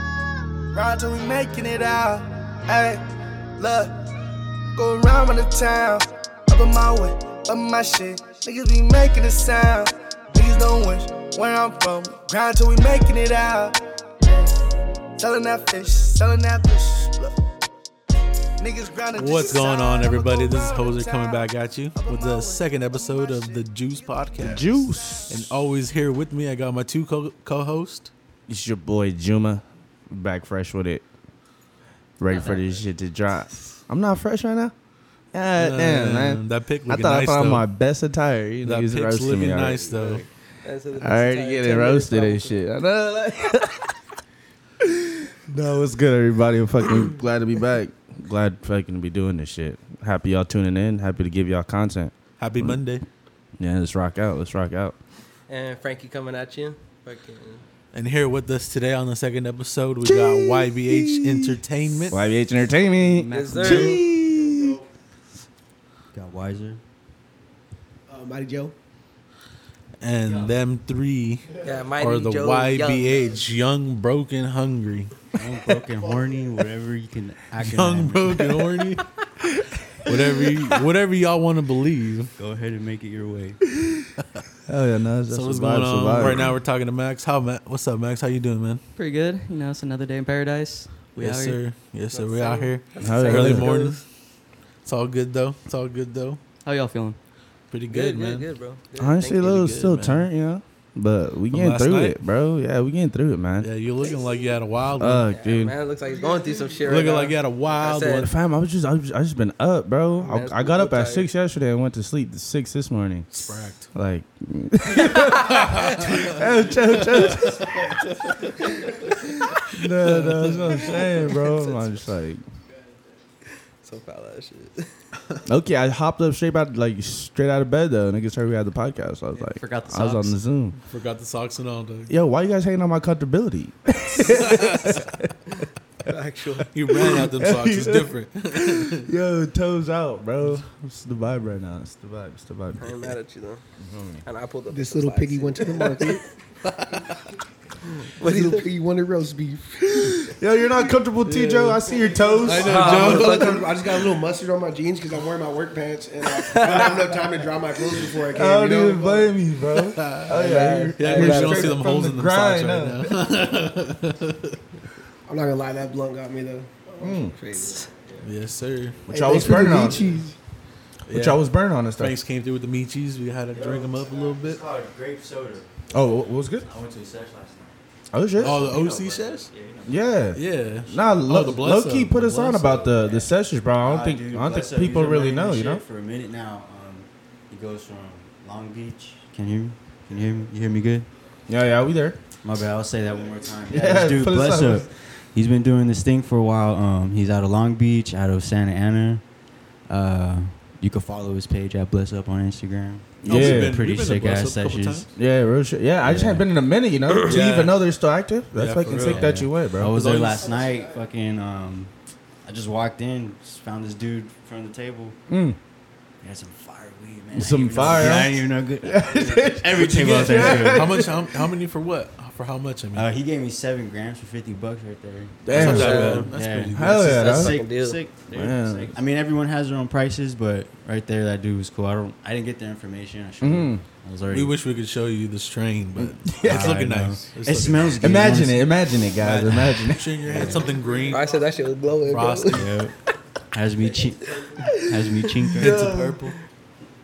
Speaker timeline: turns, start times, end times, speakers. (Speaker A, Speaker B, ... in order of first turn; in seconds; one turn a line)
Speaker A: 0.7-3.0
Speaker A: 3.6-4.0
Speaker A: 4.8-13.8
Speaker A: 15.2-17.3
Speaker A: 18.6-25.3
Speaker B: 19.1-24.7
Speaker C: 24.4-25.5
Speaker B: 25.3-28.1
Speaker C: 28.5-31.1
Speaker C: 32.2-34.7
Speaker D: 32.3-32.8
Speaker C: 35.3-39.9
Speaker B: 35.6-37.7
Speaker B: 38.6-40.3
Speaker E: 40.0-42.6
Speaker C: 41.0-44.0
Speaker C: 44.8-52.8
Speaker B: 52.4-53.0
Speaker C: 53.6-55.0
Speaker E: 55.5-57.6
Speaker B: 57.9-62.2
Speaker C: 60.0-61.6
Speaker C: 62.1-64.8
Speaker D: 63.1-64.0
Speaker E: 63.3-64.0
Speaker F: 66.1-66.8
Speaker G: 68.1-68.7
Speaker B: 70.0-71.5
Speaker E: 71.6-73.4
Speaker B: 72.0-75.3
Speaker F: 75.3-78.6
Speaker G: 76.0-76.5
Speaker B: 77.6-79.1
Speaker B: 80.0-82.3
Speaker F: 82.4-83.6
Speaker C: 84.7-86.6
Speaker B: 85.3-88.8
Speaker D: 89.0-91.6
Speaker B: 91.2-94.0
Speaker E: 92.1-94.0
Speaker C: 93.0-93.7
Speaker B: 94.8-96.4
Speaker D: 96.7-97.2
Speaker B: 97.7-98.5
Speaker E: 97.9-99.9
Speaker C: 99.0-103.7
Speaker B: 99.8-100.2
Speaker B: 101.5-102.2
Speaker B: 103.6-105.3
Speaker C: 105.0-105.7
Speaker E: 105.3-108.3
Speaker G: 106.0-107.1
Speaker B: 106.8-108.3
Speaker C: 108.2-117.8
Speaker E: 110.2-111.3
Speaker B: 113.3-113.9
Speaker B: 115.4-116.4
Speaker B: 117.2-117.5
Speaker C: 119.2-122.4
Speaker B: 120.0-121.0
Speaker E: 123.8-124.9
Speaker C: 125.5-130.8
Speaker D: 129.6-130.4
Speaker B: 130.9-132.1
Speaker C: 132.1-135.3
Speaker B: 134.2-134.9
Speaker E: 136.1-136.7
Speaker B: 136.7-139.1
Speaker C: 136.9-143.2
Speaker E: 142.8-143.6
Speaker C: 143.8-144.2
Speaker E: 144.2-146.2
Speaker G: 144.7-146.3
Speaker B: 146.7-147.2
Speaker E: 147.9-148.7
Speaker G: 148.2-150.2
Speaker C: 149.9-153.3
Speaker B: 151.3-151.8
Speaker G: 152.1-159.3
Speaker B: 152.4-153.7
Speaker E: 152.6-153.7
Speaker E: 156.4-157.0
Speaker C: 158.3-163.3
Speaker B: 159.8-160.4
Speaker E: 160.3-161.8
Speaker B: 161.0-164.6
Speaker G: 165.3-167.3
Speaker C: 167.0-167.3
Speaker E: 167.0-167.9
Speaker F: 167.9-168.3
Speaker B: 168.2-169.5
Speaker C: 169.1-170.1
Speaker G: 169.1-170.4
Speaker B: 171.1-171.4
Speaker C: 171.1-172.2
Speaker B: 172.0-174.6
Speaker F: 173.5-176.0
Speaker C: 175.9-176.7
Speaker F: 176.6-177.8
Speaker C: 178.1-178.8
Speaker B: 178.4-179.5
Speaker F: 178.4-180.1
Speaker C: 179.8-185.8
Speaker B: 180.3-182.7
Speaker F: 180.6-181.4
Speaker F: 182.6-191.1
Speaker C: 191.5-192.2
Speaker F: 192.4-199.2
Speaker C: 193.7-194.9
Speaker F: 199.9-205.1
Speaker C: 203.2-203.8
Speaker B: 203.2-205.1
Speaker C: 205.1-209.9
Speaker F: 206.0-206.4
Speaker B: 207.2-207.8
Speaker B: 208.6-210.5
Speaker F: 208.8-211.9
Speaker G: 210.3-211.1
Speaker F: 212.4-215.2
Speaker C: 215.3-215.6
Speaker F: 216.2-221.2
Speaker C: 217.3-221.2
Speaker B: 219.8-223.1
Speaker F: 222.9-234.6
Speaker C: 225.4-227.7
Speaker B: 225.5-227.4
Speaker E: 225.5-226.3
Speaker E: 227.2-228.0
Speaker C: 228.3-229.0
Speaker C: 233.4-233.8
Speaker B: 234.3-238.0
Speaker C: 236.0-236.8
Speaker F: 236.4-238.7
Speaker C: 238.0-240.7
Speaker B: 239.2-241.3
Speaker F: 240.3-241.2
Speaker E: 241.1-242.6
Speaker G: 242.0-242.5
Speaker B: 242.1-242.9
Speaker F: 242.5-242.9
Speaker F: 243.5-246.4
Speaker C: 245.6-246.1
Speaker B: 245.6-246.1